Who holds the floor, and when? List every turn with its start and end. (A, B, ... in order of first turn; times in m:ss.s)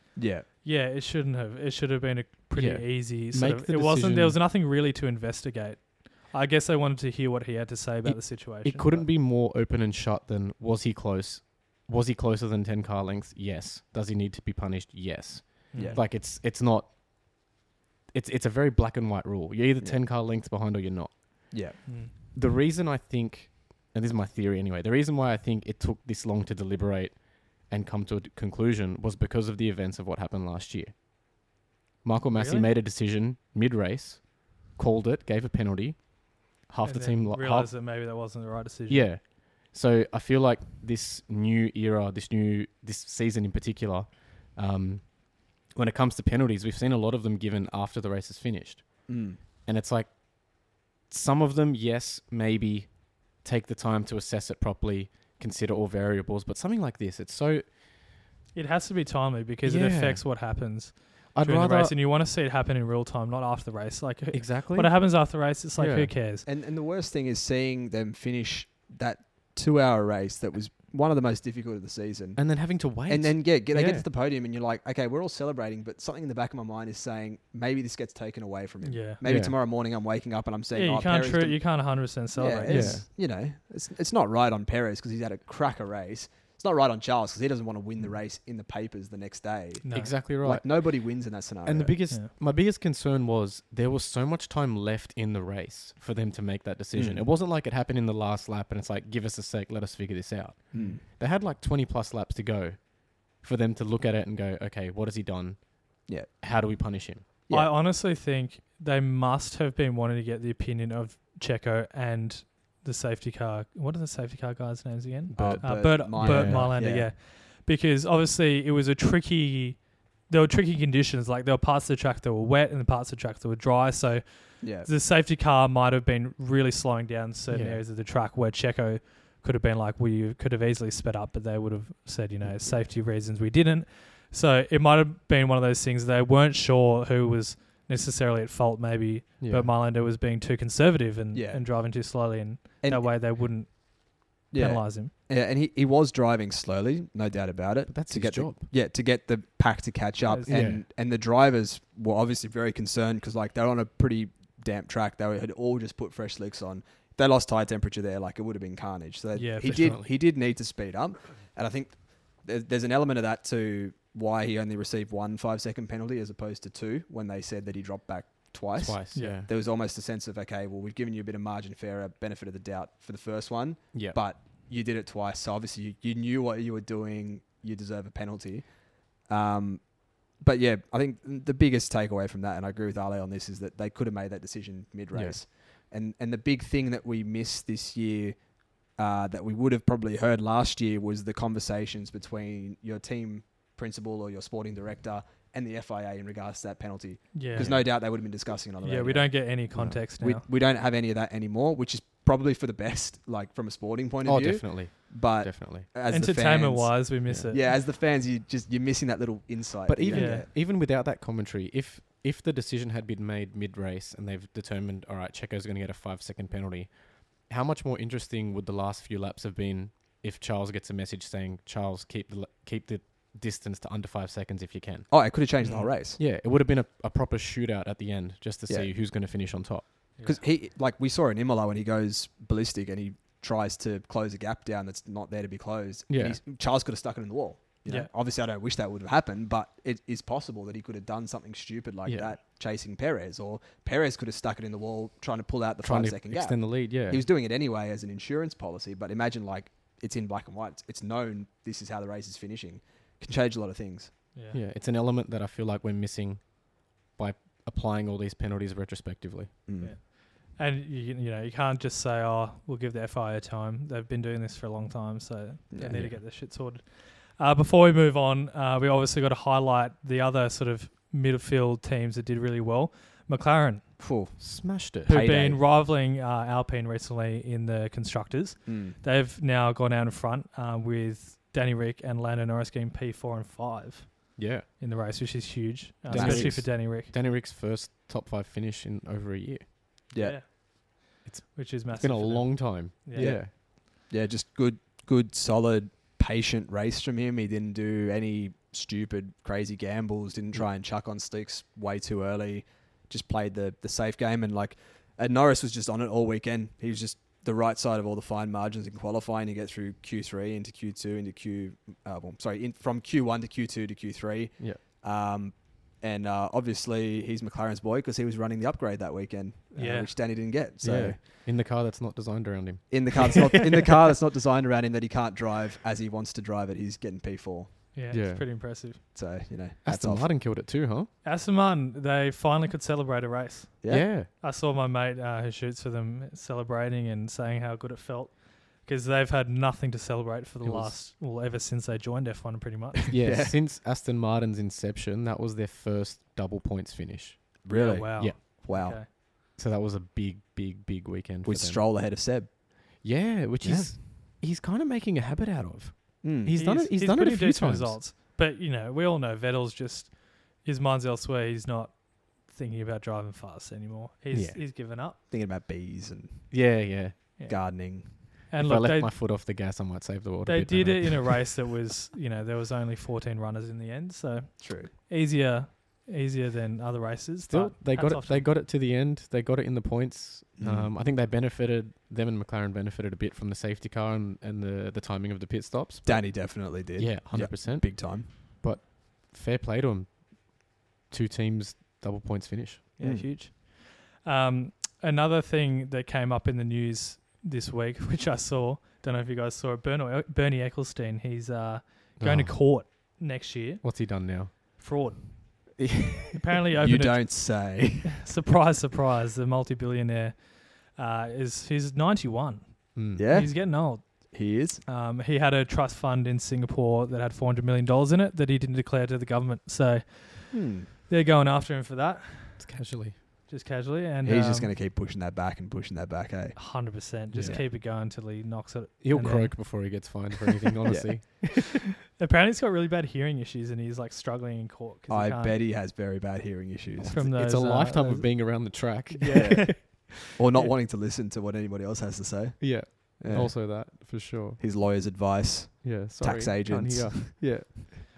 0:00.2-0:00.4 A
0:00.6-0:09.0 B
0:02.5-0:04.4 C
0:08.0-0:17.5 C
0:15.7-0:16.0 B
0:15.7-0:16.0 A
0:18.1-0:31.0 C
0:21.5-0:21.8 A
0:21.8-0:22.1 B
0:32.0-0:37.8 C
0:32.3-0:32.7 B
0:36.8-0:39.1 B
0:38.9-0:57.8 C
0:49.1-0:49.4 A
0:58.5-1:06.4 B
0:59.6-1:00.7 C
1:01.3-1:01.9 C
1:04.3-1:06.1 C
1:06.4-1:21.7 A
1:12.4-1:14.0 C
1:18.8-1:19.2 B
1:19.2-1:19.5 C
1:20.7-1:23.0 B
1:22.3-1:32.0 A
1:22.6-1:23.0 C
1:29.8-1:30.2 B
1:29.9-1:47.2 C
1:36.9-1:37.2 A
1:40.7-1:41.0 A
1:47.5-2:25.1 B
1:55.3-1:56.8 C
1:55.4-1:57.1 A
2:04.6-2:04.9 A
2:07.5-2:07.8 C
2:19.4-2:19.7 C
2:21.3-2:21.8 A
2:22.8-2:23.1 A
2:24.5-3:19.6 A
2:27.9-2:28.6 C
2:30.3-2:30.6 B
2:30.5-2:30.8 C
2:39.3-2:40.0 B
2:39.7-2:40.0 C
2:48.8-2:49.5 C
2:49.1-2:49.4 B
2:53.9-2:54.2 C
3:05.1-3:05.4 C
3:17.3-3:18.0 B
3:17.5-3:17.9 C
3:18.8-3:20.4 B
3:19.7-3:20.0 C
3:20.2-3:30.5 A
3:24.2-3:25.9 C
3:26.1-3:27.8 B
3:29.9-3:45.3 C
3:30.1-3:30.4 B
3:45.1-3:46.2 A
3:45.6-3:45.9 B
3:46.2-3:49.9 C
3:50.2-3:50.4 B
3:50.2-4:14.1 A
3:56.1-3:56.4 C
4:02.0-4:02.3 C
4:05.8-4:07.2 C
4:14.3-4:14.6 B
4:14.5-4:19.5 C
4:19.7-4:20.0 A
4:19.8-4:34.0 B
4:25.7-4:26.0 A
4:25.9-4:26.2 C
4:34.0-4:35.6 A
4:34.4-4:35.2 C
4:35.0-4:47.1 B
4:38.6-4:39.0 A
4:44.4-4:44.6 C
4:46.1-4:46.6 A
4:46.1-4:49.7 C
4:50.1-4:50.4 A
4:50.2-4:53.4 B
4:51.2-4:53.5 C
4:53.2-5:21.2 A
5:19.7-5:20.1 B
5:20.8-5:23.5 C
5:22.9-5:27.9 A
5:27.9-5:29.0 B
5:28.1-5:28.4 C
5:29.1-5:30.3 A
5:29.8-5:31.1 C
5:31.2-5:43.1 B
5:33.8-5:34.1 A
5:33.9-5:34.3 C
5:40.6-5:41.0 C
5:43.1-5:48.4 C
5:43.1-5:43.5 A
5:47.6-5:49.0 A
5:47.7-5:49.1 B
5:49.0-5:51.8 C
5:51.4-5:53.0 A
5:53.0-5:58.0 C
5:53.6-5:54.0 A
5:56.2-5:56.6 A
5:56.5-6:05.2 B
6:04.3-6:04.6 C
6:05.3-6:06.9 A
6:06.5-6:07.3 C
6:07.4-6:09.2 B
6:07.4-6:08.3 A
6:08.6-6:11.5 C
6:10.4-6:18.5 B
6:14.6-6:14.9 A
6:17.5-6:32.9 C
6:20.6-6:20.9 A
6:26.0-6:28.3 A
6:33.0-7:04.7 B
6:33.0-6:33.3 A
6:42.2-6:42.9 C
6:43.8-6:44.8 C
6:45.8-6:46.4 C
6:46.8-6:48.2 A
6:52.9-6:53.3 C
6:53.2-6:54.8 A
7:00.5-7:00.9 A
7:02.6-7:03.2 C
7:04.2-7:07.6 A
7:06.6-7:10.2 B
7:07.3-7:07.6 C
7:09.0-7:11.8 C
7:10.9-7:11.2 A
7:12.2-7:15.6 B
7:15.1-7:17.3 A
7:17.0-7:20.8 B
7:17.1-7:20.0 C
7:19.3-7:23.9 A
7:22.6-7:24.6 C
7:24.6-7:27.4 A
7:25.8-7:28.0 C